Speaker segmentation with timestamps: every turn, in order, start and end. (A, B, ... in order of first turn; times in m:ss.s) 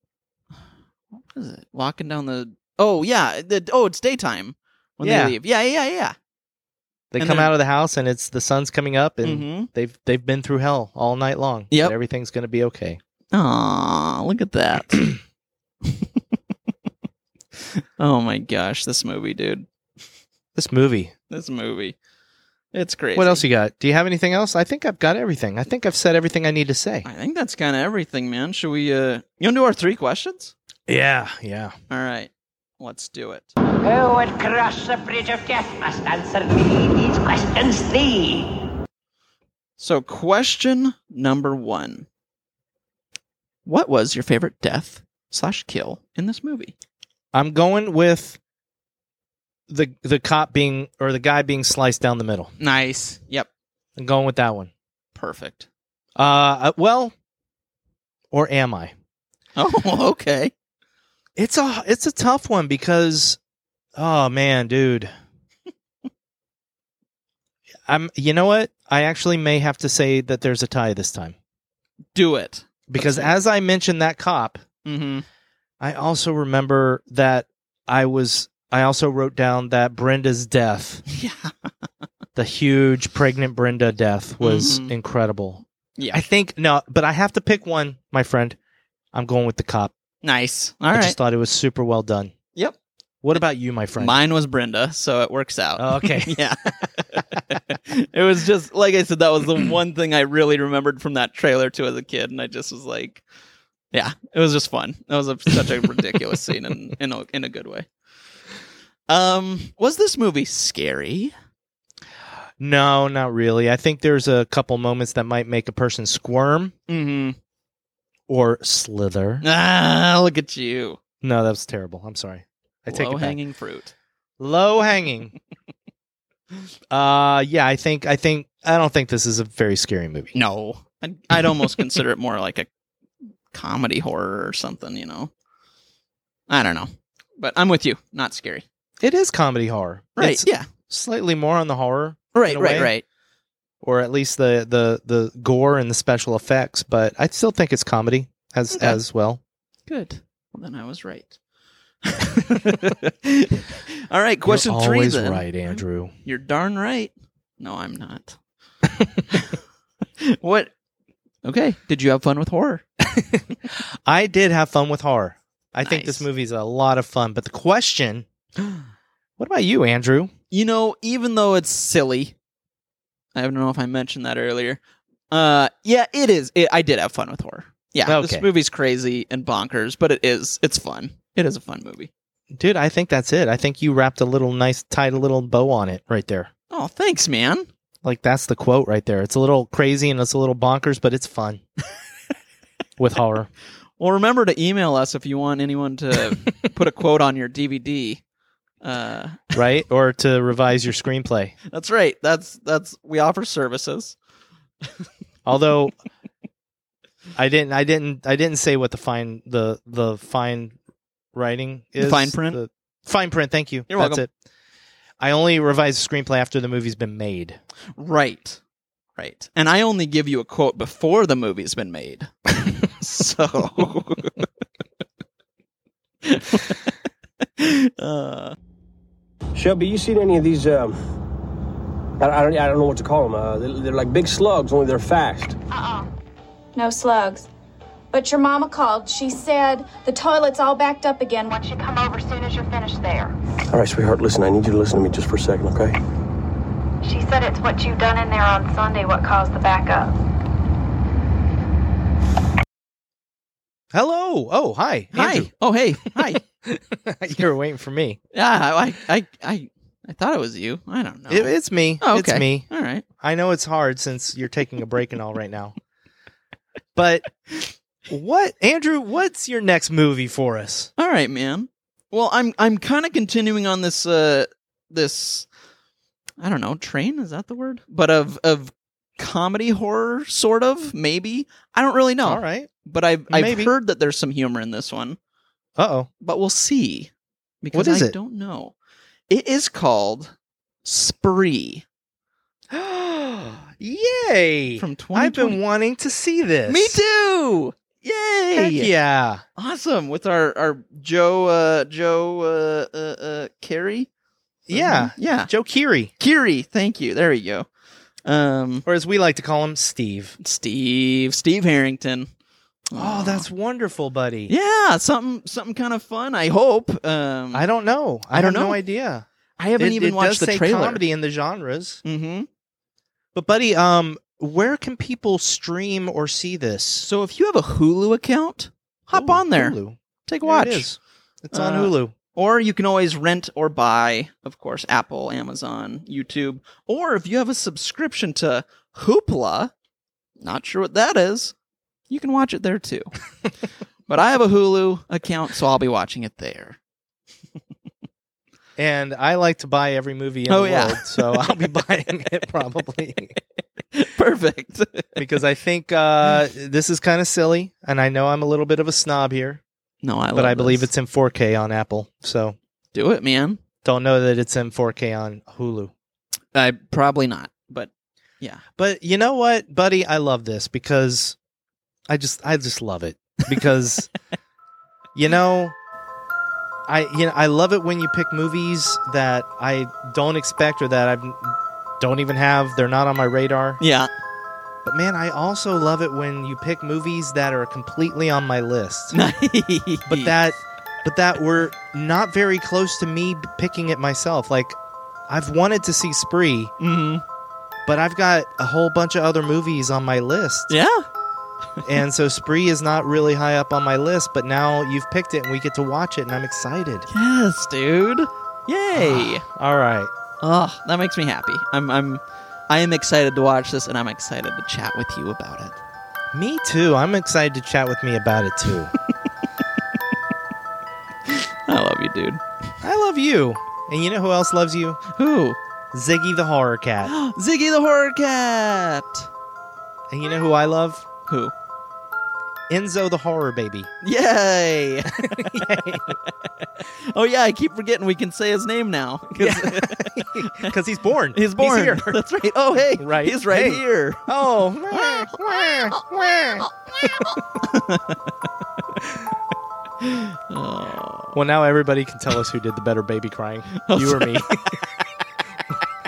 0:01.3-0:06.1 A
0:05.0-0:05.4 B
0:07.1-0:13.0 B
0:07.2-0:07.5 A
0:09.2-0:09.7 A
0:11.7-0:12.0 A
0:13.3-0:15.1 A
0:18.0-0:19.7 A
0:20.5-0:21.1 B
0:21.3-0:22.0 A
0:22.7-0:23.4 A
0:23.1-0:27.0 B
0:27.0-0:30.5 A
0:30.9-0:31.7 B
0:31.9-0:33.5 A
0:33.8-0:38.6 C
0:39.8-0:42.1 A
0:43.6-0:46.7 A
0:47.3-0:48.4 B
0:49.7-0:52.5 B
0:52.6-0:53.5 A
0:54.0-0:54.7 B
0:55.1-0:55.7 A
0:56.2-0:57.1 B
0:58.3-0:58.9 B
0:59.6-1:00.5 A
1:01.4-1:03.4 B
1:03.9-1:05.1 B
1:07.9-1:11.4 B
1:12.1-1:13.3 A
1:12.9-1:14.6 B
1:14.8-1:15.2 A
1:15.8-1:21.0 B
1:21.1-1:21.5 A
1:22.4-1:28.6 B
1:24.4-1:24.9 A
1:29.1-1:29.9 B
1:30.2-1:31.2 A
1:30.9-1:32.3 B
1:33.2-1:34.2 B
1:34.0-1:43.2 A
1:35.8-1:36.9 B
1:43.9-1:47.9 A
1:45.6-1:46.3 B
1:49.1-1:51.3 A
1:52.6-1:56.7 B
1:56.9-1:57.4 A
1:58.3-1:59.4 B
1:59.4-2:01.0 A
2:01.2-2:03.4 B
2:02.9-2:03.9 A
2:04.4-2:05.3 B
2:06.9-2:10.4 B
2:10.3-2:12.7 A
2:11.3-2:12.0 B
2:13.5-2:15.3 A
2:16.5-2:18.6 A
2:19.0-2:22.9 B
2:20.2-2:20.7 A
2:22.3-2:23.0 A
2:23.8-2:29.4 B
2:28.7-2:29.0 A
2:29.9-2:31.4 A
2:32.0-2:38.4 A
2:34.5-2:36.1 B
2:38.8-2:39.1 B
2:40.2-2:40.7 A
2:41.4-2:42.8 A
2:43.1-2:43.4 B
2:44.0-2:48.2 B
2:45.8-2:46.2 A
2:49.4-2:50.3 B
2:50.5-2:52.3 A
2:53.3-2:54.8 A
2:55.3-3:02.1 A
2:58.0-2:58.4 B
3:02.5-3:06.5 B
3:06.7-3:07.7 A
3:08.0-3:11.6 B
3:13.0-3:13.5 B
3:14.0-3:18.2 A
3:18.8-3:19.5 A
3:19.5-3:21.5 B
3:21.7-3:24.2 A
3:25.4-3:25.9 B
3:27.3-3:30.8 B
3:31.3-3:34.3 B
3:32.0-3:32.6 A
3:33.9-3:34.2 A
3:35.2-3:37.6 B
3:38.0-3:38.6 A
3:39.2-3:44.4 A
3:46.2-3:46.8 A
3:47.6-3:48.5 A
3:49.6-3:51.0 D
3:52.2-3:55.6 D
3:55.7-3:56.1 E
3:56.7-3:57.5 E
3:58.1-4:03.3 E
4:03.7-4:06.0 D
4:07.0-4:10.2 E
4:13.9-4:15.5 B
4:15.1-4:16.4 A
4:16.1-4:18.2 B
4:18.3-4:23.0 A
4:21.3-4:25.7 B
4:26.9-4:27.6 B
4:28.1-4:30.9 B
4:31.0-4:35.5 A
4:36.4-4:45.2 A
4:42.2-4:42.7 B
4:43.3-4:43.7 B
4:45.8-4:46.1 B
4:46.2-4:47.1 A
4:47.6-4:48.7 A
4:47.7-4:48.2 B
4:49.3-4:50.3 A
4:50.8-4:51.8 A
4:52.7-4:57.0 B
4:54.8-4:55.6 A
4:56.7-4:58.9 A
4:58.6-4:59.4 B
4:59.6-5:04.1 A
5:04.7-5:06.1 B
5:04.7-5:05.5 A
5:06.2-5:07.7 A
5:08.2-5:08.8 A
5:08.8-5:10.4 B
5:10.4-5:12.3 A
5:12.9-5:13.4 A
5:12.9-5:14.5 B
5:14.5-5:17.7 A
5:17.5-5:19.2 B
5:18.3-5:18.8 A
5:19.6-5:21.0 A
5:19.8-5:22.0 B
5:22.0-5:22.5 A
5:23.3-5:27.1 B
5:27.0-5:30.9 A
5:29.1-5:32.1 B
5:31.5-5:39.7 A
5:40.4-5:41.5 A
5:42.1-5:43.1 A
5:44.1-5:46.8 A
5:48.8-5:53.4 B
5:50.5-5:51.5 A
5:53.9-5:55.1 A
5:55.2-5:59.6 B
6:00.0-6:00.9 A
6:00.3-6:02.6 B
6:02.9-6:03.6 A
6:03.8-6:05.9 B
6:06.5-6:07.9 A
6:08.8-6:11.4 B
6:12.1-6:14.1 B
6:15.1-6:15.8 B
6:16.9-6:23.8 B
6:23.8-6:24.1 A
6:24.8-6:29.2 B
6:29.1-6:30.3 A
6:30.1-6:36.7 B
6:36.8-6:37.2 A
6:37.8-6:40.7 B
6:40.7-6:41.0 A
6:41.8-6:47.1 B
6:47.1-6:49.4 A
6:48.9-6:50.1 B
6:50.4-6:55.8 A
6:56.3-6:58.9 B
7:01.3-7:02.4 A
7:02.8-7:05.0 B
7:05.1-7:05.6 A
7:05.9-7:07.1 B
7:07.0-7:09.3 A
7:10.1-7:11.0 B
7:11.3-7:11.5 A
7:12.7-7:13.9 B
7:14.0-7:16.1 A
7:15.1-7:16.2 B
7:17.1-7:20.7 A
7:19.4-7:22.2 B
7:21.3-7:24.3 A
7:22.8-7:27.4 B
7:24.9-7:26.0 A
7:27.6-7:28.2 A
7:30.0-7:31.4 A
7:31.3-7:35.0 B
7:33.7-7:34.7 A